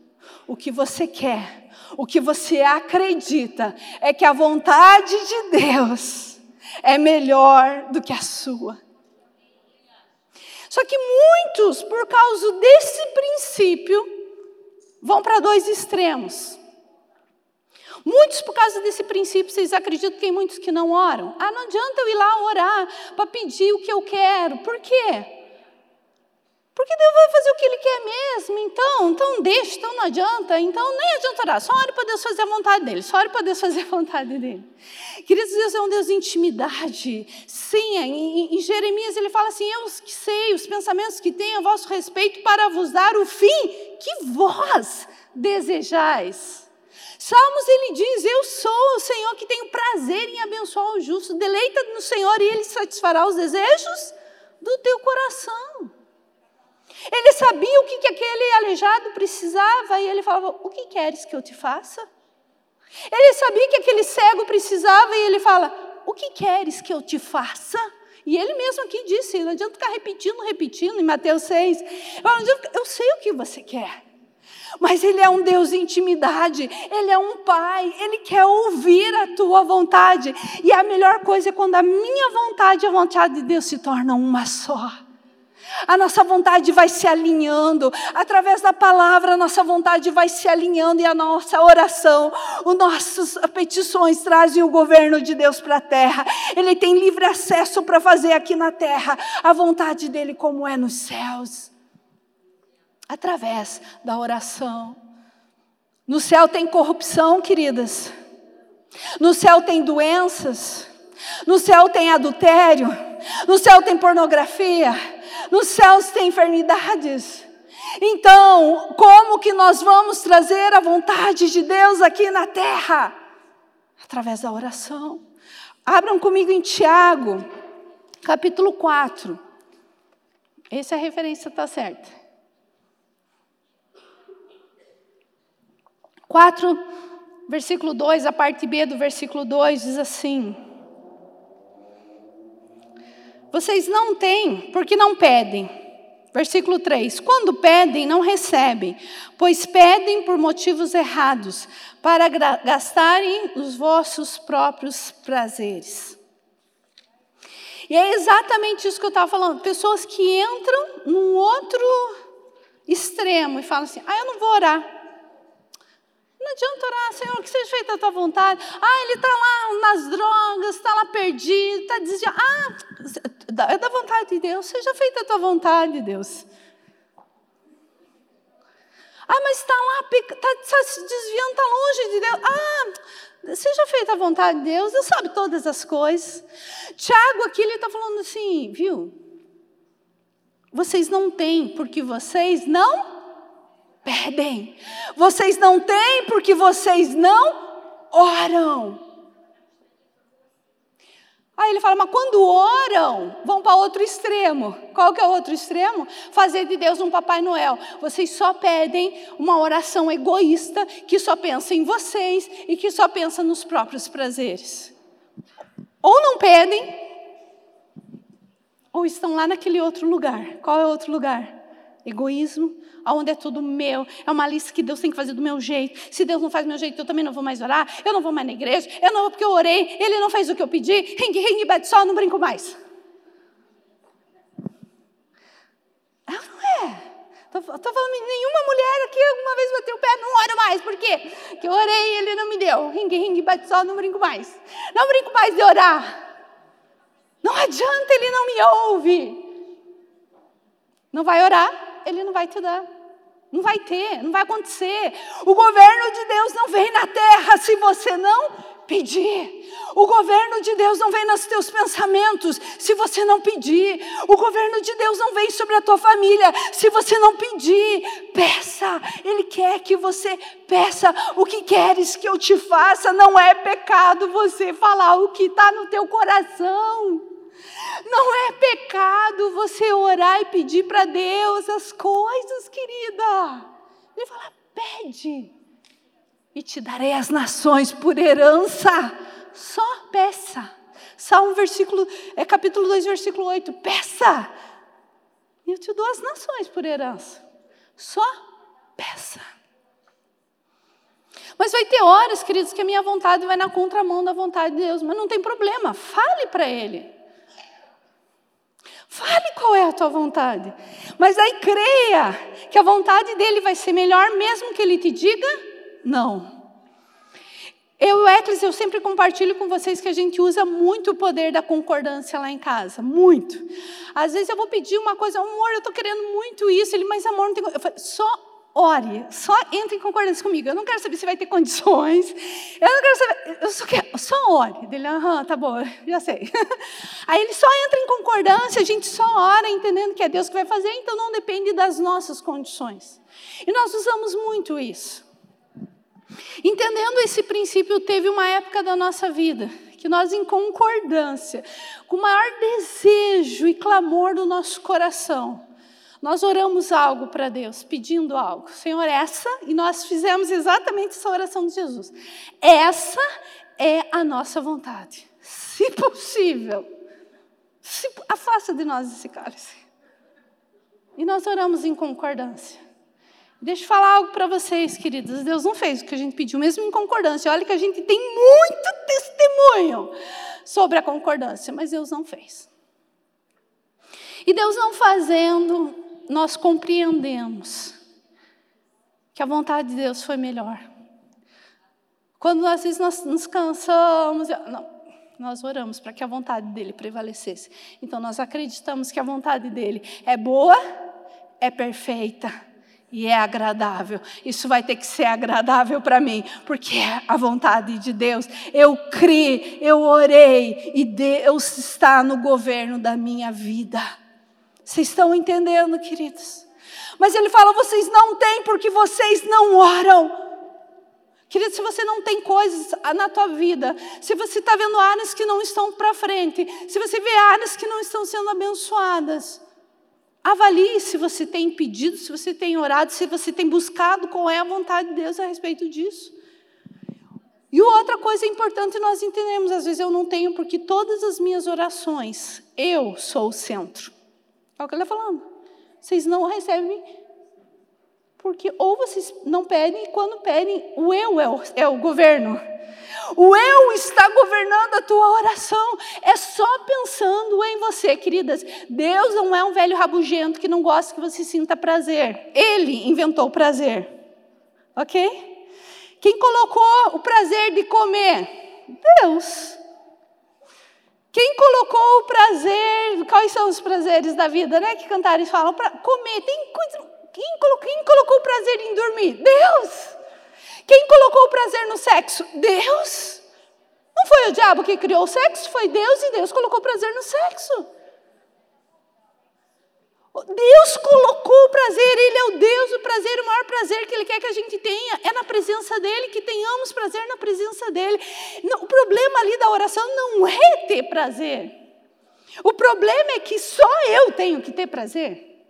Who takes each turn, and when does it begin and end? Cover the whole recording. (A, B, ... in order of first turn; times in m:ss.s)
0:00.5-0:08.8 A
0:10.7-0:14.1 A
0:15.0-0:16.6 A
0:18.0-0:25.4 A
0:26.7-0:34.7 A
0:35.2-0:55.9 A
0:57.1-1:02.0 A
1:03.1-1:14.0 A
1:14.8-1:25.0 A
1:25.8-1:41.7 A
1:43.1-1:45.0 A
1:46.1-1:48.1 A
1:49.2-1:50.9 A
1:51.4-2:03.2 A
2:04.0-2:05.2 A
2:05.8-2:07.4 A
2:08.2-2:09.4 A
2:10.7-2:12.1 A
2:16.3-2:16.8 A
2:17.5-2:20.6 A
2:23.5-2:25.7 A
2:26.3-2:36.2 A
2:37.9-2:42.2 A
2:42.9-2:44.9 A
2:46.4-2:56.5 A
2:59.3-3:09.2 A
3:10.7-3:13.2 A
3:14.0-3:19.0 A
3:21.6-3:34.9 A
3:36.0-3:37.1 A
3:38.9-3:52.8 A
3:56.3-4:06.2 A
4:07.4-4:09.5 A
4:11.1-4:12.9 A
4:13.5-4:37.3 A
4:38.0-4:45.5 A
4:46.5-4:54.5 A
4:55.6-4:57.4 A
4:58.0-4:58.3 A
4:59.0-4:59.4 A
5:01.6-5:07.1 A
5:09.1-5:16.6 A
5:18.0-5:45.2 A
5:46.6-5:55.6 A
5:56.2-6:03.2 A
6:03.8-6:06.9 A
6:07.8-6:09.8 A
6:11.2-6:12.8 A
6:13.6-6:20.1 A
6:20.6-6:22.7 A
6:24.4-6:28.0 A
6:29.3-6:30.9 A
6:32.4-6:40.8 A
6:41.6-6:42.5 A
6:43.1-6:54.1 A
6:54.8-6:56.6 A
6:57.2-7:00.4 A
7:01.5-7:09.6 A
7:10.4-7:16.3 A
7:17.7-7:24.1 A
7:24.8-7:25.4 A
7:26.0-7:27.1 A
7:28.4-7:32.6 A
7:33.3-7:44.1 A
7:44.9-7:45.6 A
7:46.2-7:49.8 A
7:51.3-8:00.2 A
8:00.9-8:03.4 A
8:04.2-8:07.9 A
8:10.3-8:21.7 A
8:22.6-8:25.5 A